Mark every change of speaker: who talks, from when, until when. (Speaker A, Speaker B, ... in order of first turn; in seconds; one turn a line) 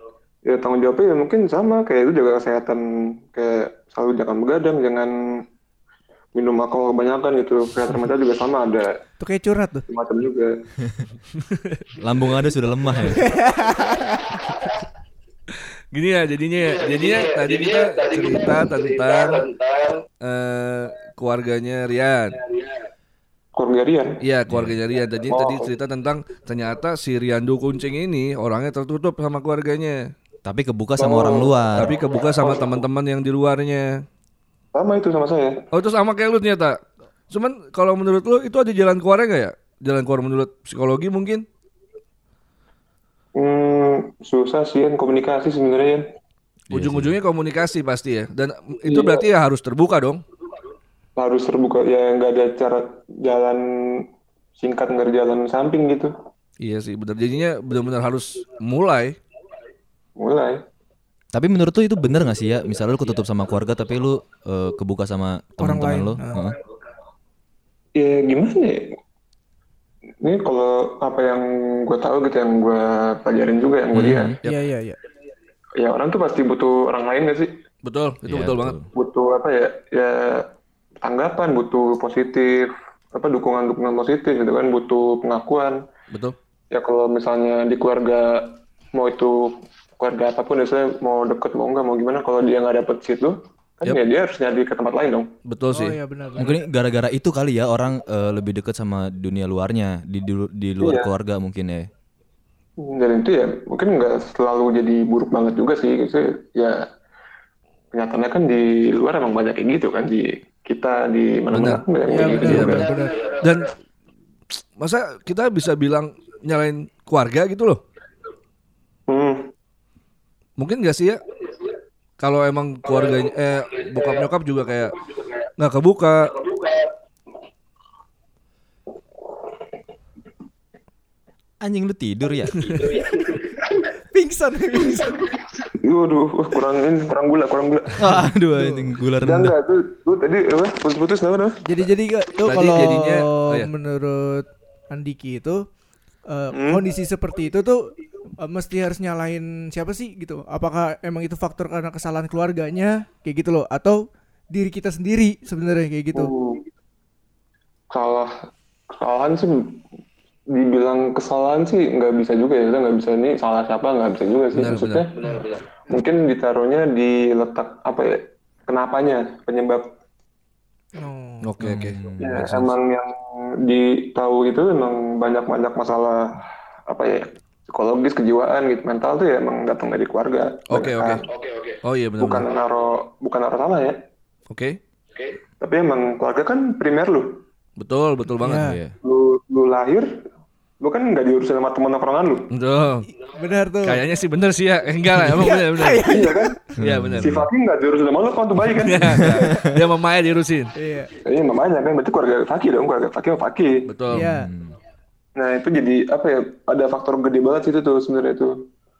Speaker A: 0.4-5.1
Speaker A: 6.3-8.9
Speaker B: 9.2-9.8
Speaker A: 9.9-10.5
Speaker C: 11.5-11.8
Speaker D: 12.0-13.3
Speaker B: 13.1-14.4
Speaker C: 15.5-19.6
Speaker C: 20.2-22.4
Speaker A: 23.5-24.2
Speaker C: 24.2-30.1
Speaker D: 24.5-24.8
Speaker A: 25.3-25.7
Speaker D: 30.4-31.9
Speaker A: 31.0-32.8
Speaker C: 31.8-34.0
Speaker A: 34.7-35.6
Speaker C: 35.7-41.4
Speaker A: 43.3-46.1
Speaker D: 46.7-47.1
Speaker C: 46.7-50.2
Speaker A: 48.9-49.2
Speaker A: 51.1-56.1
Speaker C: 56.6-59.2
Speaker A: 60.2-60.6
Speaker D: 61.3-66.5
Speaker B: 65.6-66.5
Speaker A: 67.9-69.0
Speaker A: 70.2-74.4
Speaker D: 73.9-74.4
Speaker B: 74.4-75.0
Speaker A: 75.8-77.5
Speaker C: 77.8-78.7
Speaker D: 78.2-78.9
Speaker A: 78.9-85.8
Speaker C: 86.1-86.3
Speaker A: 86.7-95.3
Speaker C: 95.5-96.0
Speaker B: 95.7-96.5
Speaker D: 96.3-101.9
Speaker A: 100.8-101.1
Speaker A: 102.8-106.9
Speaker A: 107.9-112.9
Speaker C: 111.5-111.8
Speaker B: 112.1-113.3
Speaker C: 112.4-113.7
Speaker C: 114.5-117.8
Speaker A: 119.1-119.5
Speaker C: 120.6-121.2
Speaker C: 122.2-125.0
Speaker C: 125.6-126.5
Speaker D: 131.6-132.8
Speaker B: 134.1-135.3
Speaker A: 135.6-138.1
Speaker D: 138.0-139.6
Speaker B: 138.5-138.9
Speaker A: 139.2-141.6
Speaker B: 141.6-145.6
Speaker C: 142.4-143.7
Speaker B: 146.3-156.3
Speaker A: 146.5-146.8
Speaker A: 156.1-156.6
Speaker A: 157.9-158.3
Speaker A: 158.9-159.8
Speaker A: 160.5-169.9
Speaker C: 164.5-165.1
Speaker B: 171.0-171.5
Speaker C: 171.4-172.0
Speaker D: 171.6-172.8
Speaker A: 172.2-181.3
Speaker C: 180.7-181.2
Speaker C: 181.8-182.5
Speaker A: 182.2-184.0
Speaker C: 184.5-184.8
Speaker A: 185.6-187.4
Speaker C: 187.8-188.7
Speaker B: 188.4-188.8
Speaker D: 188.6-188.9
Speaker A: 189.0-190.2
Speaker A: 190.8-192.5
Speaker C: 192.5-193.1
Speaker B: 193.2-194.0
Speaker C: 193.8-196.1
Speaker B: 195.2-196.6
Speaker A: 196.1-199.4
Speaker C: 196.8-197.4
Speaker D: 196.8-197.5
Speaker C: 198.6-200.7
Speaker D: 199.1-199.8
Speaker B: 200.8-201.1
Speaker A: 201.2-203.9
Speaker C: 203.9-204.2
Speaker D: 204.1-204.7
Speaker B: 204.1-204.5
Speaker A: 205.3-208.7